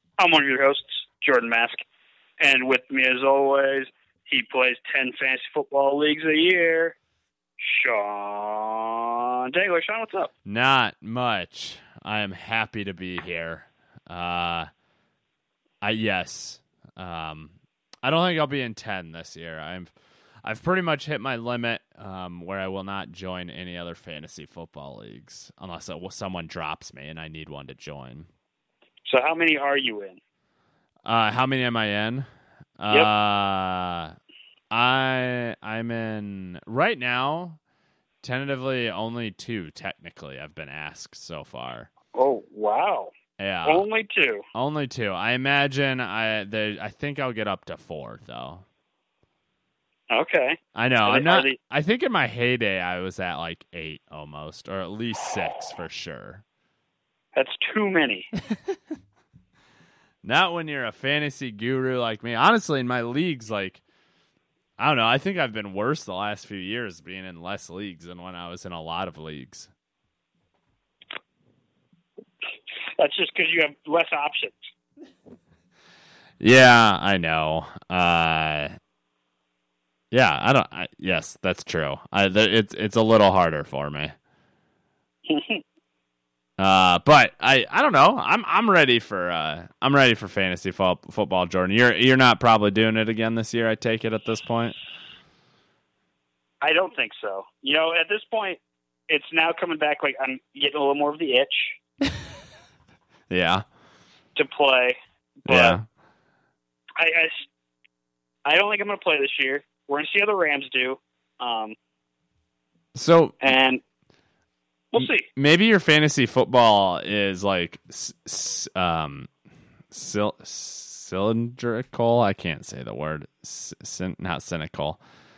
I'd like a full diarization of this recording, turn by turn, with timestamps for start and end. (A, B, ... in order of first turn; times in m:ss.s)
0:00.2-0:01.8 A
0:02.4-0:07.0 A
0:07.6-0:10.3 A
0:10.5-0:14.7 B
0:15.8-0:19.9 B
0:20.4-0:28.3 B
0:29.0-0:30.2 A
0:31.0-0:32.3 B
0:32.8-0:34.1 B
0:34.7-0:37.6 B
0:38.2-0:41.9 B
0:42.1-0:43.1 A
0:43.4-0:43.8 B
0:43.6-0:44.4 A
0:44.5-0:48.6 B
0:50.1-0:51.6 A
0:50.8-0:56.4 B
0:57.3-0:58.3 A
1:00.2-1:03.8 B
1:04.8-1:09.7 B
1:13.0-1:14.7 A
1:16.4-1:18.7 B
1:20.1-1:24.1 B
1:25.3-1:25.6 A
1:26.6-1:34.8 B
1:36.6-1:41.8 A
1:43.3-1:43.6 B
1:44.3-1:45.8 A
1:45.5-1:45.8 B
1:47.0-1:47.5 A
1:48.4-1:51.8 A
1:52.9-1:53.4 B
1:53.4-1:53.8 A
1:54.9-1:55.3 A
1:55.0-1:59.3 B
1:59.9-2:05.0 B